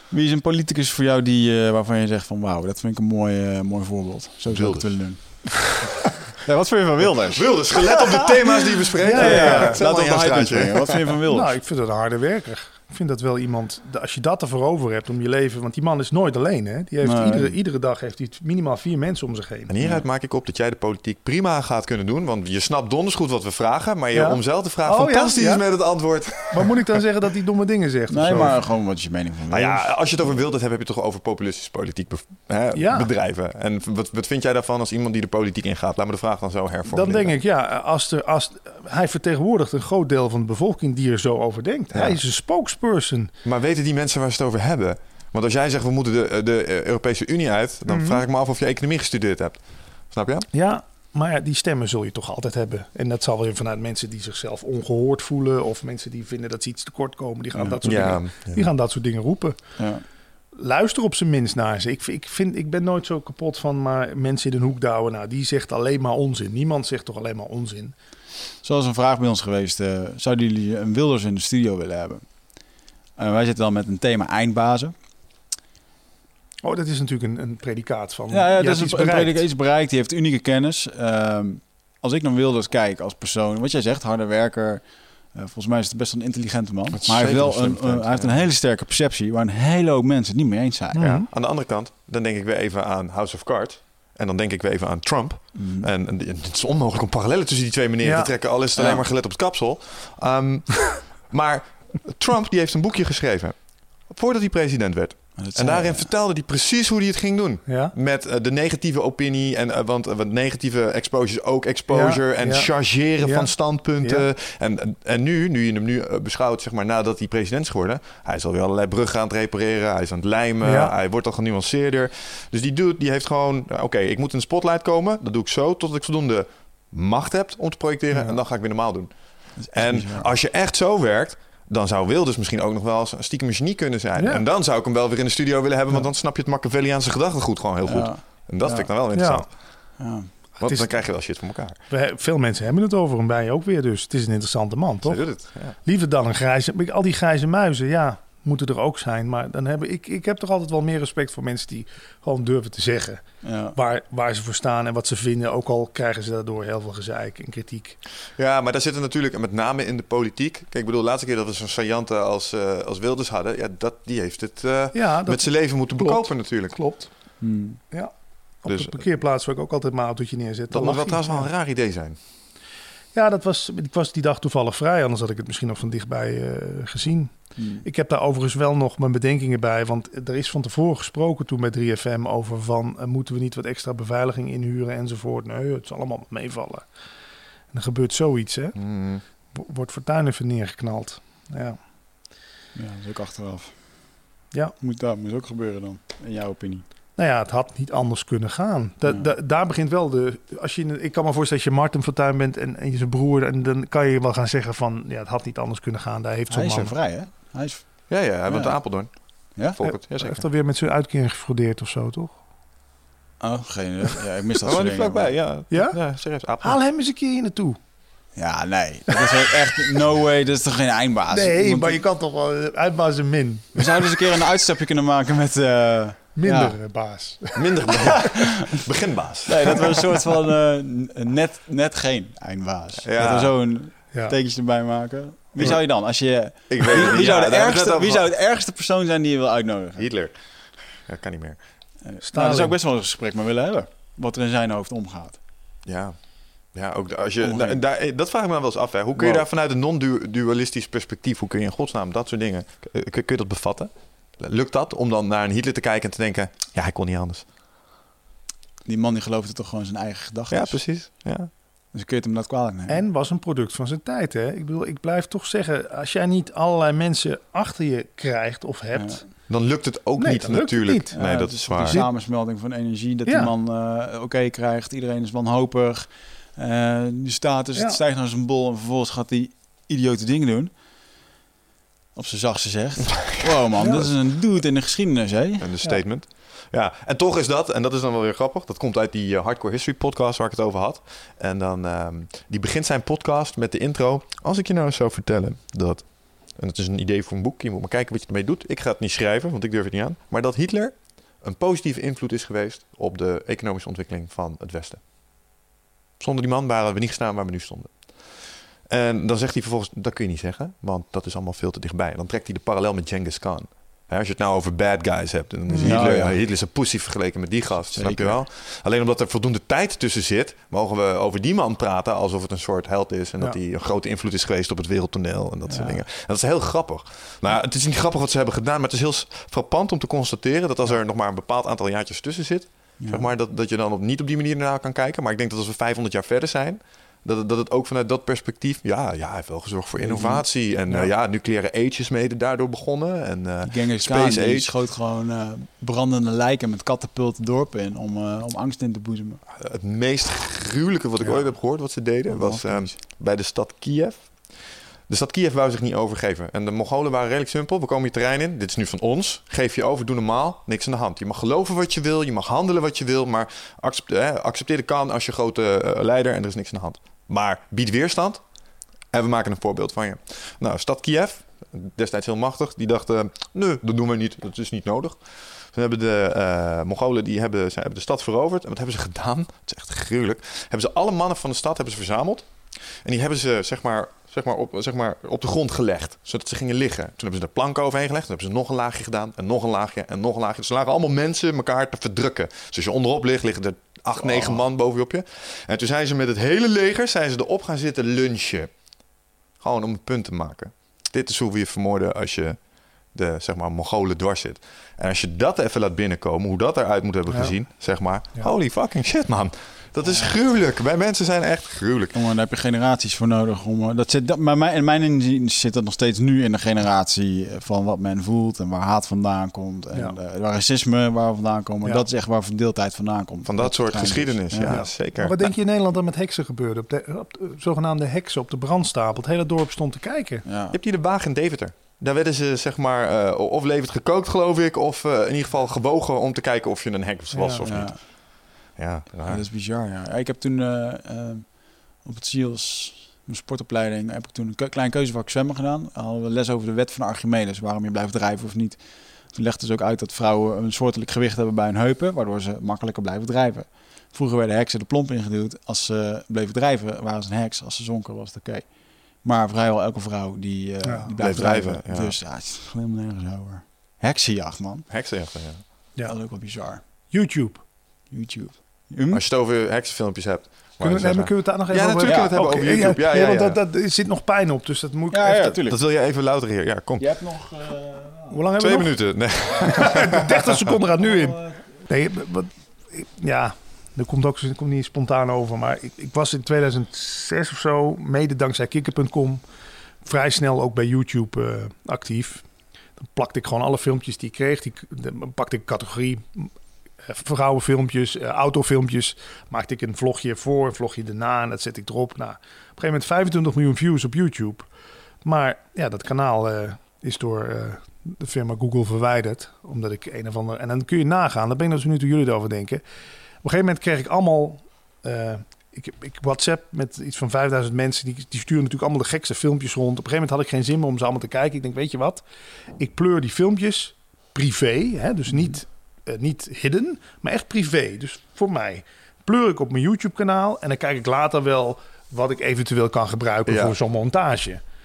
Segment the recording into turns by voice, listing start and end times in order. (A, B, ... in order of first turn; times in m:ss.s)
0:00.1-0:08.3 A
0:04.5-0:05.5 B
0:07.3-0:11.2 B
0:09.0-0:09.8 C
0:09.1-0:11.5 A
0:11.3-0:19.7 C
0:17.0-0:17.5 A
0:19.7-0:27.0 B
0:24.1-0:28.6 C
0:28.1-0:30.4 A
0:29.5-0:37.4 B
0:32.7-0:33.1 C
0:36.9-0:43.3 C
0:41.9-0:42.2 B
0:43.4-0:50.5 B
0:47.9-0:48.2 C
0:50.5-0:59.8 C
0:57.8-0:58.7 B
0:59.8-1:00.0 A
1:00.5-1:07.9 C
1:08.6-1:15.0 A
1:16.6-1:19.4 C
1:18.3-1:31.1 A
1:26.9-1:28.5 B
1:30.9-1:31.3 C
1:31.0-2:19.9 B
1:35.5-1:35.9 A
1:38.0-1:38.4 C
1:38.8-1:39.0 A
1:45.4-1:46.1 A
1:47.7-1:47.9 C
1:51.9-1:54.3 C
2:00.6-2:00.9 C
2:08.1-2:08.4 C
2:09.6-2:10.3 A
2:14.2-2:14.4 C
2:17.8-2:18.9 A
2:19.1-2:19.9 C
2:20.0-2:20.3 A
2:20.6-2:38.0 C
2:20.6-2:21.8 B
2:25.0-2:25.8 B
2:33.4-2:33.8 A
2:38.3-2:46.8 B
2:44.9-2:51.5 C
2:47.4-2:47.8 A
2:48.7-2:49.0 B
2:50.7-2:52.2 B
2:53.1-3:06.9 C
2:57.6-2:57.8 A
3:07.7-3:11.8 C
3:08.8-3:09.2 B
3:12.8-3:14.2 A
3:14.8-3:16.8 A
3:17.2-3:27.0 C
3:19.0-3:19.3 A
3:26.5-3:29.8 A
3:28.1-3:30.4 B
3:30.1-3:32.4 C
3:33.4-3:35.4 A
3:34.6-3:36.8 B
3:35.7-3:36.0 C
3:36.6-3:37.8 C
3:38.4-3:42.0 A
3:41.3-3:44.1 C
3:43.8-3:46.8 A
3:46.4-3:48.3 C
3:47.6-3:50.0 B
3:48.2-3:48.5 A
3:49.5-4:00.1 A
3:53.0-3:53.5 B
3:54.1-3:54.4 C
3:55.6-3:58.2 B
4:00.0-4:01.6 B
4:02.0-4:05.4 A
4:02.2-4:02.8 C
4:05.8-4:17.4 B
4:07.4-4:07.8 A
4:09.2-4:09.4 A
4:18.8-4:20.9 A
4:20.5-4:21.5 B
4:21.9-4:23.0 A
4:22.9-4:29.6 C
4:28.9-4:29.2 A
4:29.5-4:32.0 B
4:30.2-4:32.2 C
4:31.1-4:40.7 A
4:33.3-4:33.5 C
4:37.8-4:38.0 C
4:42.2-4:45.7 A
4:43.3-4:44.1 B
4:45.6-5:05.0 B
5:06.2-5:44.8 B
5:15.7-5:16.0 C
5:15.8-5:16.4 A
5:17.9-5:18.4 A
5:25.7-5:26.0 A
5:33.0-5:33.3 A
5:40.0-5:40.5 A
5:43.6-5:49.4 A
5:49.6-6:08.4 B
5:51.2-5:53.0 A
6:09.1-6:38.8 B
6:34.2-6:34.6 A
6:39.6-6:52.2 B
6:47.3-6:48.5 C
6:50.0-6:50.4 A
6:52.1-7:04.8 A
7:03.4-7:05.5 B
7:04.7-7:10.4 C
7:10.4-7:10.8 A
7:10.7-7:19.4 B
7:17.3-7:17.7 C
7:17.6-7:18.0 A
7:19.2-7:44.9 A
7:40.8-7:41.1 C
7:41.2-7:42.2 B
7:44.9-7:45.7 B
7:46.0-7:46.8 A
7:47.1-7:47.6 C
7:48.1-7:49.2 A
7:49.1-7:53.6 B
7:50.8-7:55.6 C
7:52.0-7:52.4 A
7:55.1-7:55.8 A
7:55.7-7:57.0 B
7:57.0-7:58.4 A
7:58.3-7:59.0 C
7:58.6-8:00.6 B
7:59.6-8:09.4 C
8:01.0-8:01.6 A
8:10.0-8:16.5 C
8:17.0-8:24.7 C
8:25.2-8:32.8 C
8:33.4-8:42.2 C
8:42.8-8:54.6 C
8:53.5-8:53.8 B